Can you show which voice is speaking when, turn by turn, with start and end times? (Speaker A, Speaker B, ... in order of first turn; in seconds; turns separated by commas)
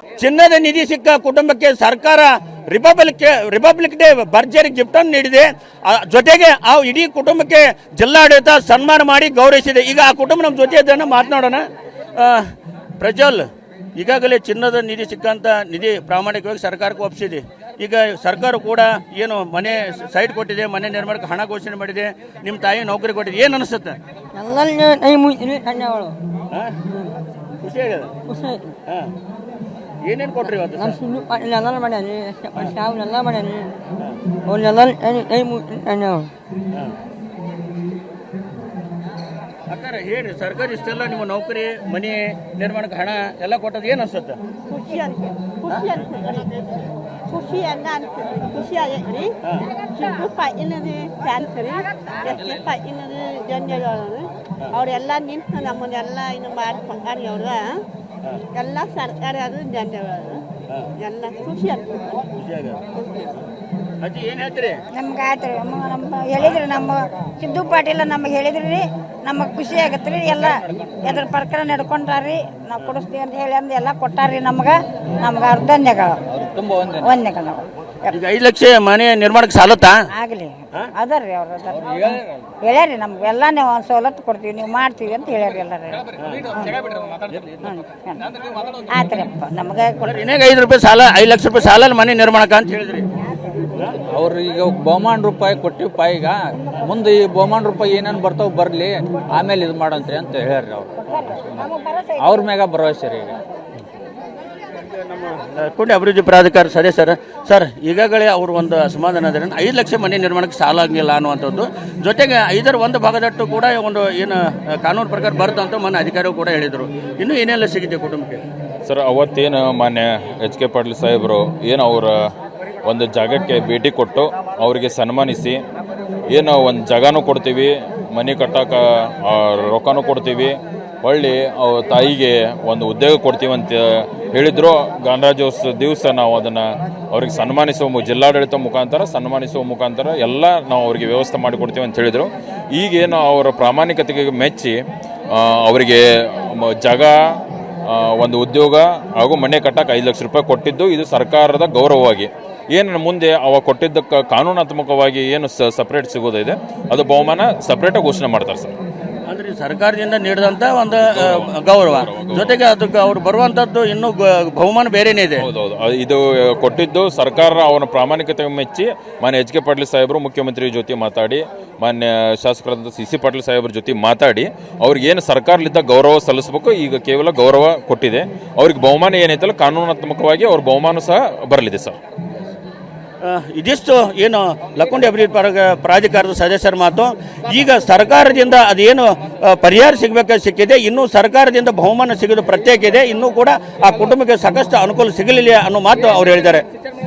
Speaker A: 0.2-11.7, Speaker A: 12.2-12.5, Speaker A: 13.0-13.5, Speaker A: 14.0-24.0, Speaker B: 24.4-26.1, Speaker A: 26.5-26.8, Speaker A: 27.6-28.1, Speaker B: 28.3-28.6, Speaker A: 30.0-31.0, Speaker B: 30.8-33.7, Speaker B: 34.5-36.3, Speaker A: 39.7-44.4, Speaker C: 44.7-46.3, Speaker A: 45.7-46.8, Speaker C: 47.3-49.3, Speaker C: 49.9-57.8, Speaker A: 52.2-52.5, Speaker C: 58.6-60.4, Speaker C: 61.0-62.2, Speaker A: 62.4-62.9, Speaker A: 64.0-64.8, Speaker D: 65.0-76.2, Speaker E: 76.3-77.1, Speaker D: 77.0-77.7, Speaker A: 78.1-80.0, Speaker D: 80.2-86.8, Speaker D: 87.6-88.2, Speaker D: 88.9-90.2, Speaker A: 90.1-93.1, Speaker E: 94.1-101.5, Speaker D: 101.2-102.5, Speaker E: 102.2-103.4, Speaker A: 104.8-118.5, Speaker F: 118.8-122.3, Speaker F: 122.8-125.6, Speaker F: 126.3-144.8, Speaker F: 145.3-147.1, Speaker F: 147.9-158.8, Speaker A: 159.3-165.5, Speaker F: 161.1-162.6, Speaker F: 165.4-182.0, Speaker A: 183.2-196.7